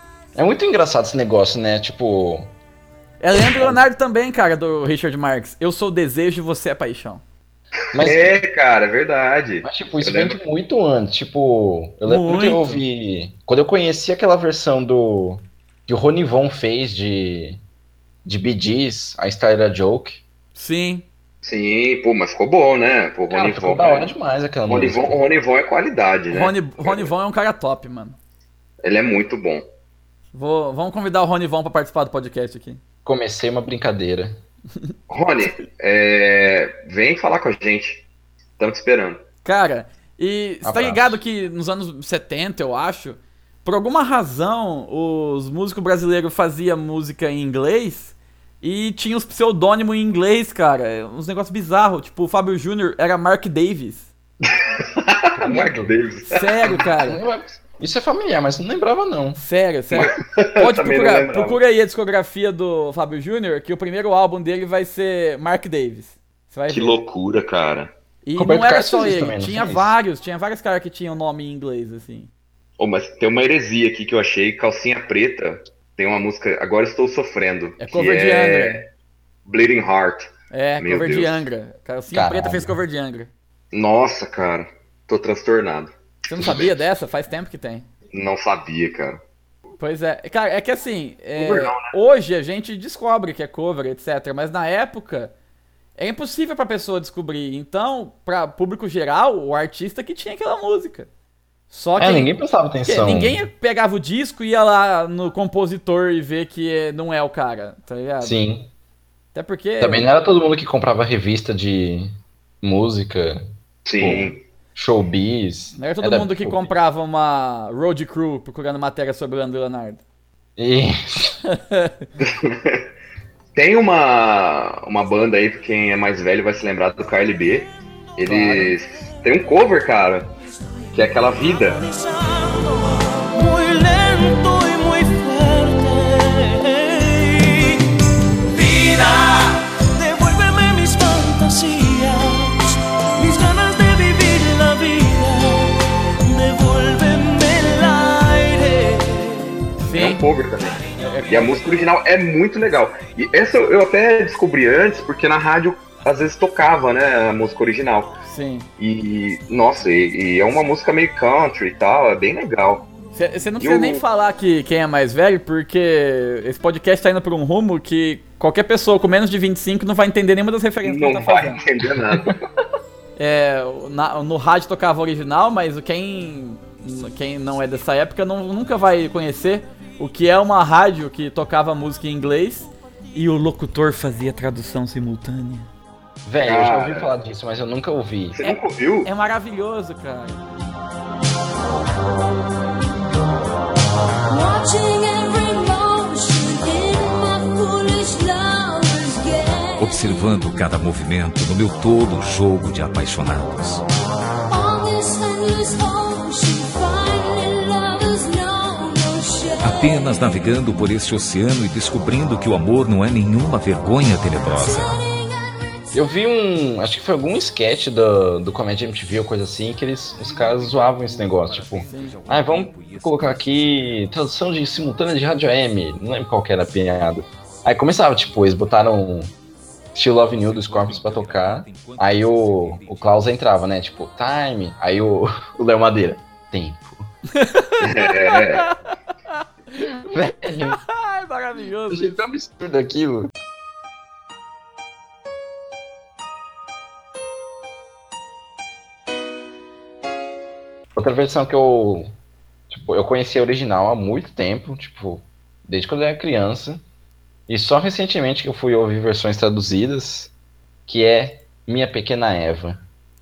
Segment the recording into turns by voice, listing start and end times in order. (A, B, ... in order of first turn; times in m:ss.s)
0:00.4-0:02.5 A
0:03.2-0:07.2 B
0:03.5-0:03.8 A
0:07.9-0:08.4 A
0:08.0-0:10.4 C
0:09.6-0:17.6 A
0:12.0-0:12.8 B
0:18.2-0:20.2 A
0:20.6-0:21.1 B
0:21.4-0:24.1 C
0:23.3-0:25.2 A
0:24.7-0:27.1 C
0:26.3-0:28.2 B
0:28.8-0:29.6 C
0:30.3-0:32.8 B
0:33.0-0:34.4 A
0:35.1-0:38.1 C
0:38.6-0:39.2 C
0:39.4-0:54.1 B
0:40.6-0:41.2 A
0:54.5-0:56.6 C
0:55.4-0:55.9 A
0:56.3-0:57.2 B
0:56.7-0:59.4 A
0:59.4-1:07.0 B
0:59.9-1:01.6 C
1:06.7-1:07.9 C
1:08.2-1:12.3 B
1:08.4-1:10.0 A
1:12.8-1:18.8 C
1:17.8-1:18.8 B
1:19.5-1:21.4 C
1:20.5-1:23.3 B
1:22.1-1:22.7 A
1:23.7-1:26.7 C
1:26.3-1:27.9 B
1:28.1-1:29.2 C
1:29.8-1:35.3 B
1:31.4-1:31.9 C
1:36.0-1:41.1 B
1:41.7-1:42.3 B
1:42.0-1:43.4 A
1:42.8-1:48.4 B
1:48.2-1:48.7 A
1:49.3-1:50.1 B
1:49.8-1:53.4 A
1:53.9-1:54.4 C
1:54.0-1:56.7 A
1:55.8-2:00.0 B
2:00.6-2:01.4 A
2:01.4-2:02.1 B
2:02.2-2:02.8 C
2:03.6-2:10.3 C
2:08.3-2:08.8 B
2:10.9-2:11.8 C
2:11.8-2:17.8 D
2:18.5-2:22.6 D
2:23.2-2:25.7 D
2:26.2-2:29.3 D
2:29.8-2:30.2 B
2:29.9-2:38.2 C
2:31.0-2:31.8 B
2:38.2-2:38.7 B
2:38.8-2:42.9 C
2:43.1-2:51.6 B
2:43.6-2:44.0 C
2:50.8-2:52.4 C
2:52.1-2:52.3 A
2:53.2-3:05.7 B
3:06.2-3:08.4 A
3:06.4-3:07.1 C
3:08.3-3:09.1 C
3:08.4-3:10.4 B
3:14.3-3:20.4 E
3:19.8-3:23.8 F
3:24.5-3:30.4 E
3:29.6-3:35.0 F
3:34.4-3:36.0 E
3:35.9-3:49.3 A
3:40.2-3:44.1 F
3:41.9-3:42.2 B
3:50.0-3:57.0 A
3:50.3-3:53.2 F
3:57.3-3:59.9 B
3:57.8-3:58.7 C
4:00.1-4:00.8 A
4:00.7-4:02.2 B
4:01.9-4:03.3 A
4:11.0-4:12.1 A
4:12.7-4:16.8 A
4:17.5-4:20.3 A
4:20.9-4:22.8 A